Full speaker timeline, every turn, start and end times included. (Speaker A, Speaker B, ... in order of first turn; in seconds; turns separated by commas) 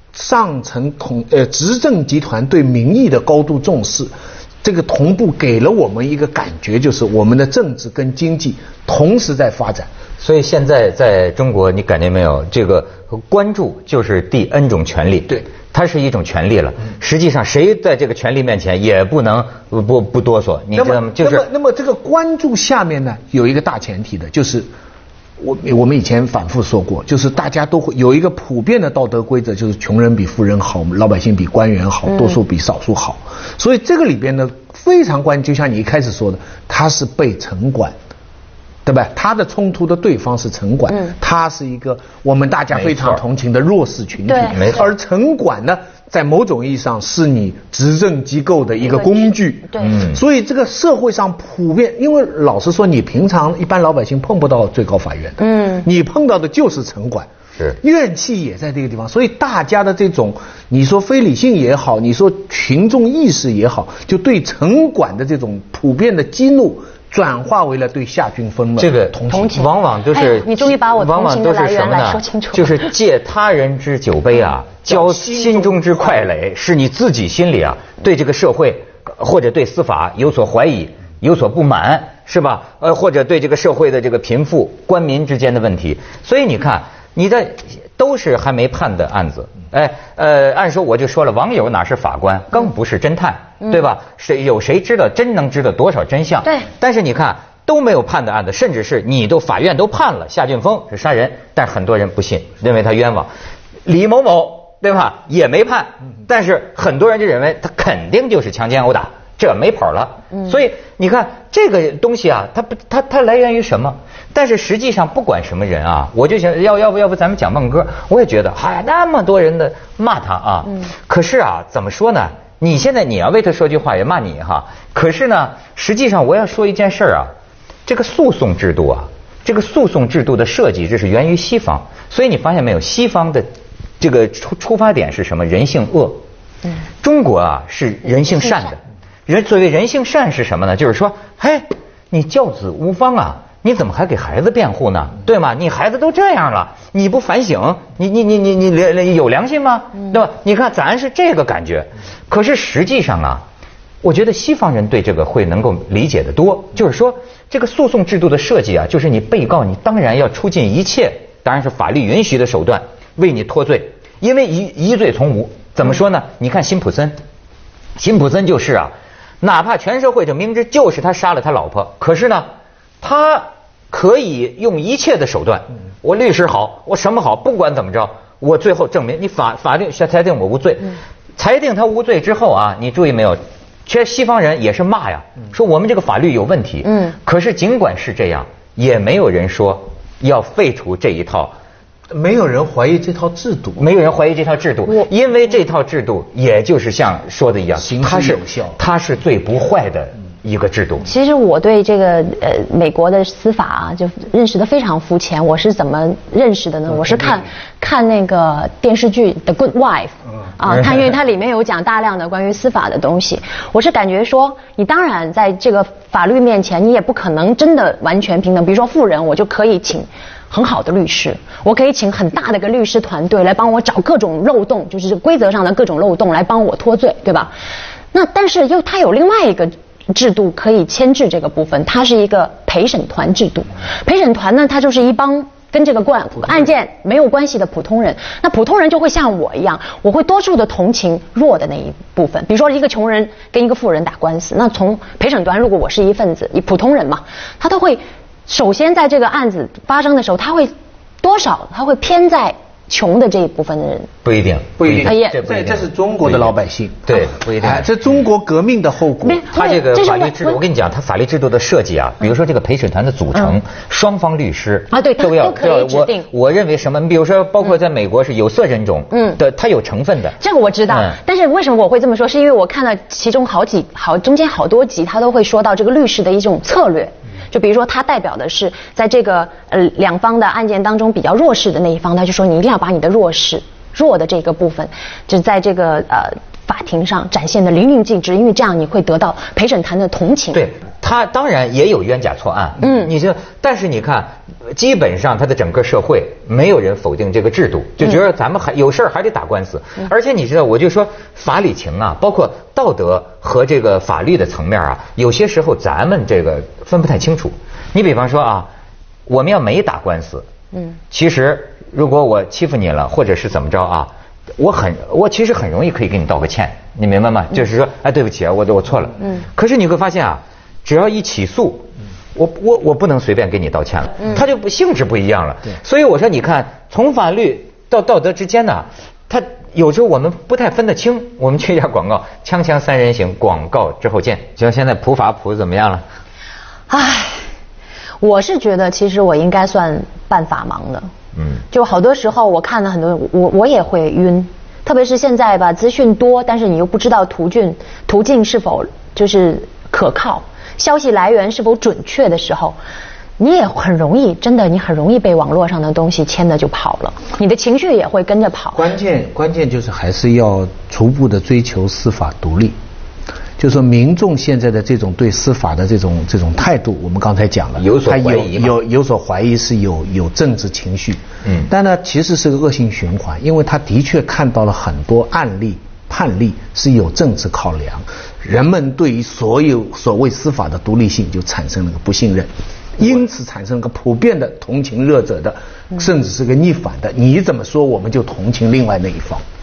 Speaker A: 0.1-9.9, Speaker B: 10.2-21.5, Speaker A: 20.8-24.7, Speaker A: 25.4-38.0, Speaker A: 38.9-57.3, Speaker B: 42.7-43.2, Speaker C: 44.3-44.7, Speaker B: 44.5-44.9, Speaker C: 48.9-50.0, Speaker B: 49.8-50.2, Speaker C: 55.4-55.9, Speaker A: 57.8-69.6, Speaker B: 68.8-103.3, Speaker C: 69.3-73.0, Speaker A: 74.9-76.3, Speaker B: 103.8-127.3, Speaker B: 127.9-133.5, Speaker B: 134.0-136.2, Speaker B: 137.0-153.4, Speaker B: 154.0-167.2, Speaker B: 168.0-172.5, Speaker B: 173.0-191.6, Speaker A: 192.1-193.9, Speaker B: 193.8-201.1, Speaker A: 197.8-198.8, Speaker C: 201.1-227.5, Speaker A: 207.1-207.4, Speaker B: 210.7-211.0, Speaker C: 228.1-254.1, Speaker B: 254.2-256.6, Speaker A: 254.8-259.4, Speaker C: 255.0-255.4, Speaker B: 257.1-258.0, Speaker C: 259.2-260.6, Speaker B: 259.4-270.4, Speaker C: 264.9-266.3, Speaker C: 269.1-269.4, Speaker C: 270.4-290.7, Speaker B: 270.9-271.2, Speaker B: 290.5-308.7, Speaker C: 292.8-293.1, Speaker B: 309.3-310.5, Speaker B: 311.1-336.0, Speaker C: 336.9-337.5, Speaker C: 338.2-341.1, Speaker B: 341.4-341.6, Speaker C: 341.7-352.8, Speaker C: 353.4-358.9, Speaker A: 358.8-362.8, Speaker A: 363.6-389.4, Speaker B: 367.8-368.8